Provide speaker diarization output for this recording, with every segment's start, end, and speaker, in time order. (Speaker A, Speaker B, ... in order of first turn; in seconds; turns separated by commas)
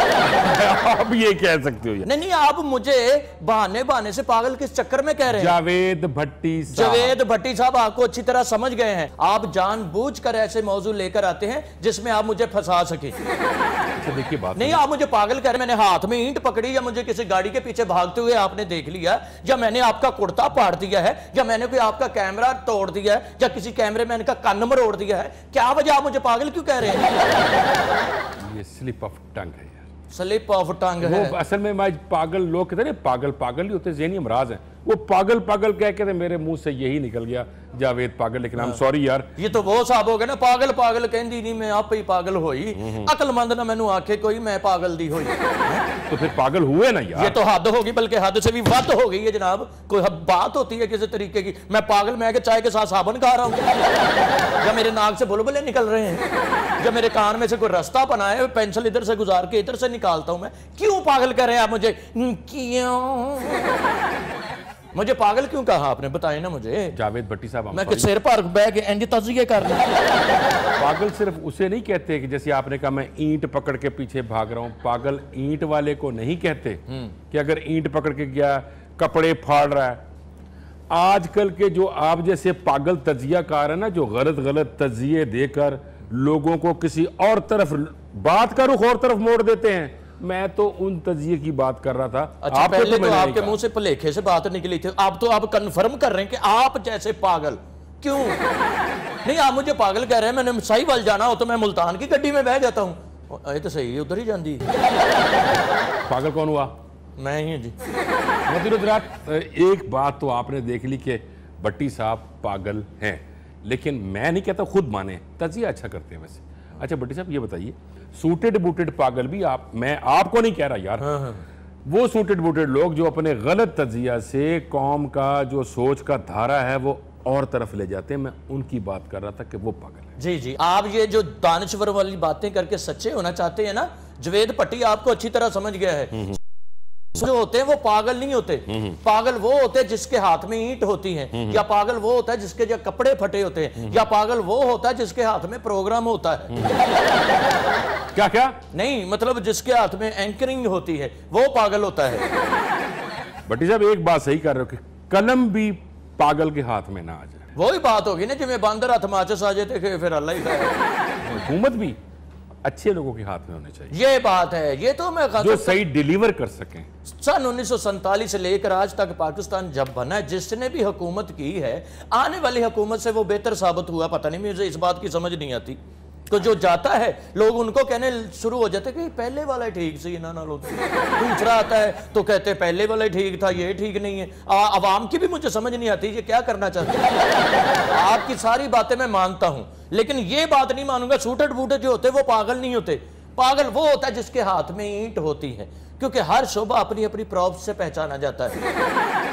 Speaker A: 0.2-2.1, Speaker B: 2.0-5.5, Speaker A: 5.3-7.1, Speaker B: 6.7-13.2, Speaker A: 14.0-14.8, Speaker B: 14.6-27.1, Speaker A: 28.4-29.8, Speaker B: 30.1-31.3, Speaker A: 31.0-39.3, Speaker B: 39.4-45.8, Speaker A: 42.8-43.1, Speaker A: 46.1-47.4, Speaker B: 47.2-53.6, Speaker B: 54.6-56.2, Speaker B: 56.8-63.9, Speaker B: 64.9-66.9, Speaker A: 66.9-68.1, Speaker B: 67.7-70.0, Speaker A: 70.8-80.0, Speaker A: 80.9-93.6, Speaker B: 92.4-98.4, Speaker B: 99.2-104.7, Speaker A: 106.0-106.7, Speaker B: 107.2-107.7, Speaker A: 108.5-121.2, Speaker B: 121.0-121.4, Speaker A: 121.8-130.1, Speaker B: 130.2-136.3, Speaker B: 137.2-146.5, Speaker A: 138.7-139.0, Speaker A: 141.3-141.6, Speaker A: 146.5-146.8, Speaker A: 148.1-148.6, Speaker B: 148.7-152.2, Speaker A: 153.5-157.4, Speaker B: 157.5-160.7, Speaker A: 161.3-162.0, Speaker A: 162.6-163.9, Speaker B: 163.9-165.8, Speaker A: 165.4-166.9, Speaker B: 167.1-175.8, Speaker B: 176.3-187.0, Speaker B: 187.9-198.6